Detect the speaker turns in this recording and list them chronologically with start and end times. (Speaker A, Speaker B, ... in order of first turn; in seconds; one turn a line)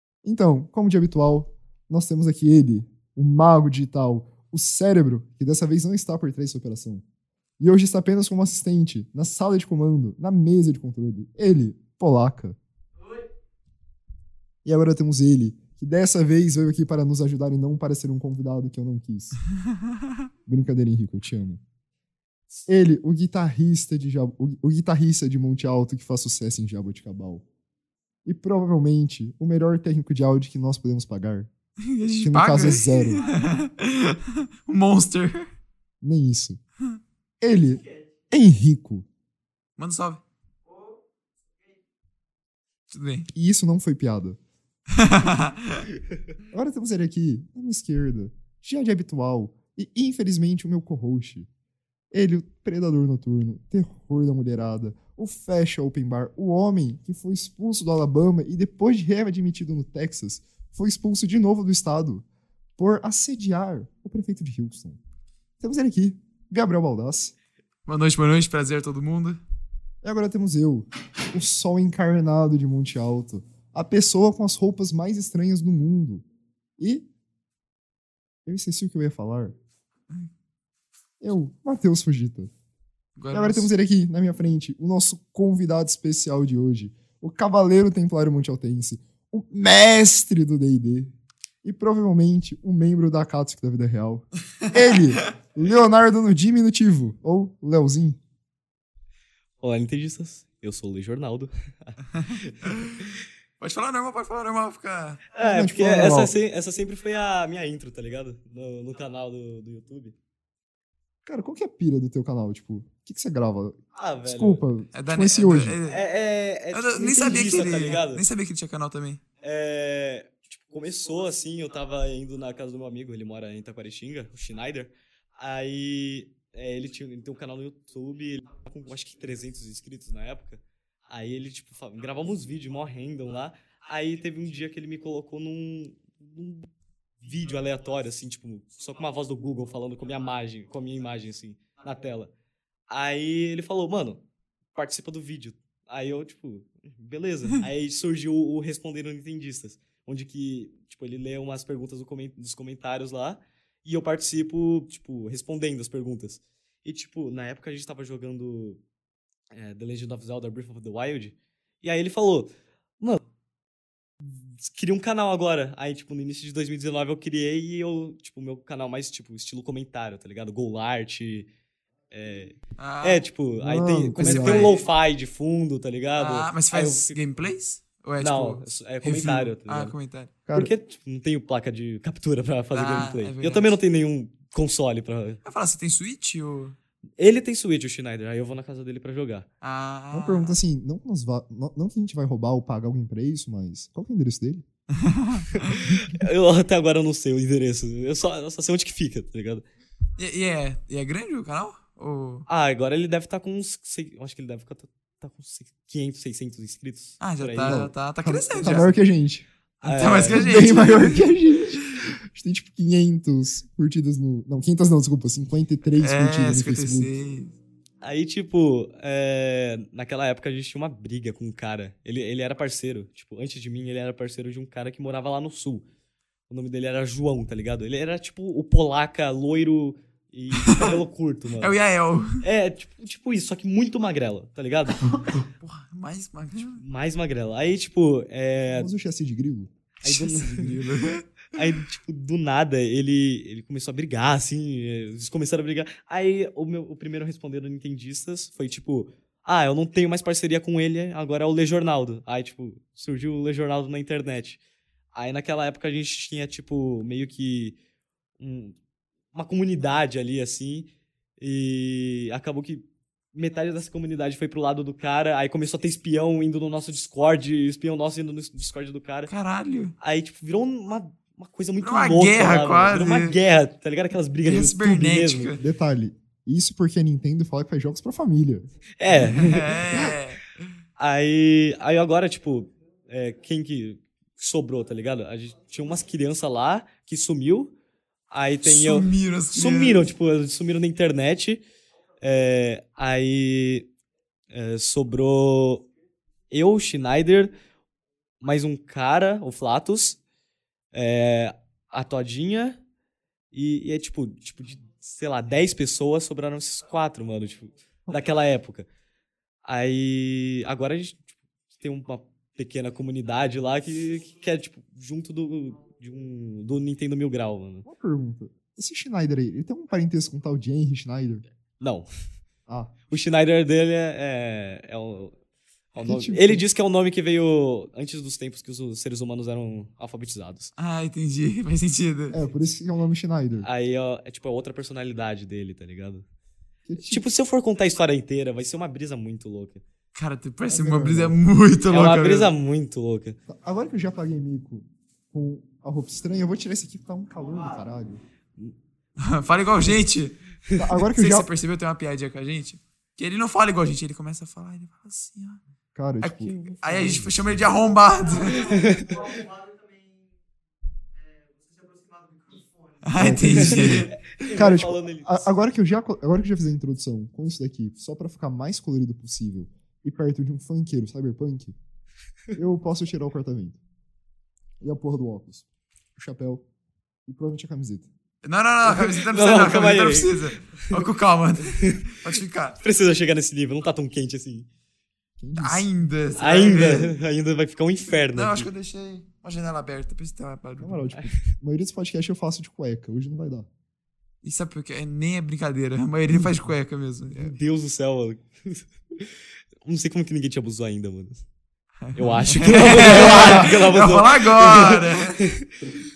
Speaker A: 0.2-7.0
Speaker A: 7.6-12.6
Speaker A: 14.6-19.4
Speaker A: 20.5-21.6
Speaker A: 22.7-27.4
Speaker A: 28.2-31.5
Speaker B: 31.8-35.5
Speaker A: 32.2-33.2
Speaker A: 36.0-36.6
Speaker A: 37.4-39.1
Speaker B: 39.8-40.2
Speaker B: 42.9-43.3
Speaker A: 43.3-44.4
Speaker B: 44.9-45.9
Speaker A: 46.5-51.5
Speaker A: 52.1-62.2
Speaker A: 62.8-65.0
Speaker A: 65.6-67.3
Speaker B: 67.9-69.4
Speaker A: 70.0-76.2
Speaker A: 76.8-77.1
Speaker A: 78.5-79.6
Speaker A: 81.2-82.5
Speaker B: 83.2-83.7
Speaker A: 83.3-98.2
Speaker B: 94.7-95.0
Speaker C: 99.6-102.8
Speaker B: 102.2-103.0
Speaker B: 103.6-105.2
Speaker C: 105.3-110.2
Speaker A: 105.4-106.3
Speaker A: 111.2-115.8
Speaker C: 114.0-114.6
Speaker B: 114.9-116.0
Speaker C: 115.9-118.2
Speaker B: 116.7-119.2
Speaker C: 119.4-136.7
Speaker C: 137.2-142.3
Speaker C: 142.9-144.2
Speaker C: 144.8-158.8
Speaker C: 159.5-163.2
Speaker C: 164.5-171.5
Speaker C: 172.1-177.2
Speaker B: 172.8-173.2
Speaker A: 173.6-174.7
Speaker B: 174.2-174.8
Speaker B: 176.2-180.3
Speaker C: 178.2-179.9
Speaker C: 180.5-185.4
Speaker B: 182.7-183.8
Speaker B: 185.4-186.8
Speaker C: 187.2-189.5
Speaker B: 189.6-190.6
Speaker A: 190.1-194.7
Speaker B: 194.9-195.9
Speaker C: 195.5-199.7
Speaker B: 200.2-202.5
Speaker C: 202.5-207.8
Speaker B: 207.2-208.9
Speaker A: 207.7-209.5
Speaker C: 208.6-208.9
Speaker C: 209.8-210.7
Speaker B: 209.8-211.2
Speaker A: 210.2-217.1
Speaker B: 216.0-217.6
Speaker C: 218.0-225.8
Speaker C: 226.5-231.8
Speaker B: 230.6-231.0
Speaker B: 231.6-232.4
Speaker C: 232.4-235.2
Speaker B: 235.4-236.8
Speaker C: 236.8-238.9
Speaker A: 238.7-239.7
Speaker C: 240.0-240.7
Speaker B: 240.1-241.6
Speaker C: 241.5-254.6
Speaker C: 255.2-257.8
Speaker C: 258.4-258.8
Speaker C: 259.3-260.9
Speaker C: 261.4-269.3
Speaker B: 269.3-269.9
Speaker C: 270.0-275.5
Speaker B: 271.8-273.4
Speaker B: 274.4-275.6
Speaker A: 275.6-278.7
Speaker C: 279.0-280.1
Speaker B: 279.1-280.5
Speaker C: 281.0-287.7
Speaker C: 288.3-291.6
Speaker B: 288.6-290.1
Speaker C: 292.2-293.9
Speaker C: 294.5-295.9
Speaker C: 296.5-297.5
Speaker C: 298.4-300.2
Speaker C: 300.9-302.8
Speaker C: 303.5-308.9
Speaker C: 309.7-317.9
Speaker A: 317.9-321.4
Speaker C: 321.8-322.1
Speaker A: 322.7-322.9
Speaker C: 323.1-325.4
Speaker C: 325.9-330.7
Speaker A: 326.0-326.6
Speaker B: 330.8-332.4
Speaker A: 332.3-333.7
Speaker C: 333.6-336.2
Speaker A: 336.9-337.2
Speaker C: 337.0-339.8
Speaker B: 340.1-342.5
Speaker A: 340.7-341.4
Speaker C: 341.9-343.4
Speaker A: 343.5-348.2
Speaker B: 349.2-350.4
Speaker A: 350.8-351.5
Speaker B: 351.1-355.6
Speaker A: 355.9-357.3
Speaker B: 356.2-358.8
Speaker C: 356.5-357.2
Speaker C: 358.6-359.4
Speaker B: 363.0-364.1
Speaker A: 363.2-371.8
Speaker C: 363.4-365.5
Speaker A: 372.6-373.8
Speaker A: 374.8-375.6
Speaker A: 376.2-376.6
Speaker A: 377.3-378.1
Speaker B: 378.4-382.8
Speaker C: 378.9-381.0
Speaker C: 381.7-382.0
Speaker C: 382.8-384.7
Speaker A: 385.4-385.9
Speaker B: 385.6-387.1
Speaker C: 386.4-388.7
Speaker B: 388.3-391.1
Speaker A: 390.8-393.7
Speaker B: 394.4-397.5
Speaker C: 397.4-401.4
Speaker B: 402.0-405.5
Speaker C: 402.1-405.9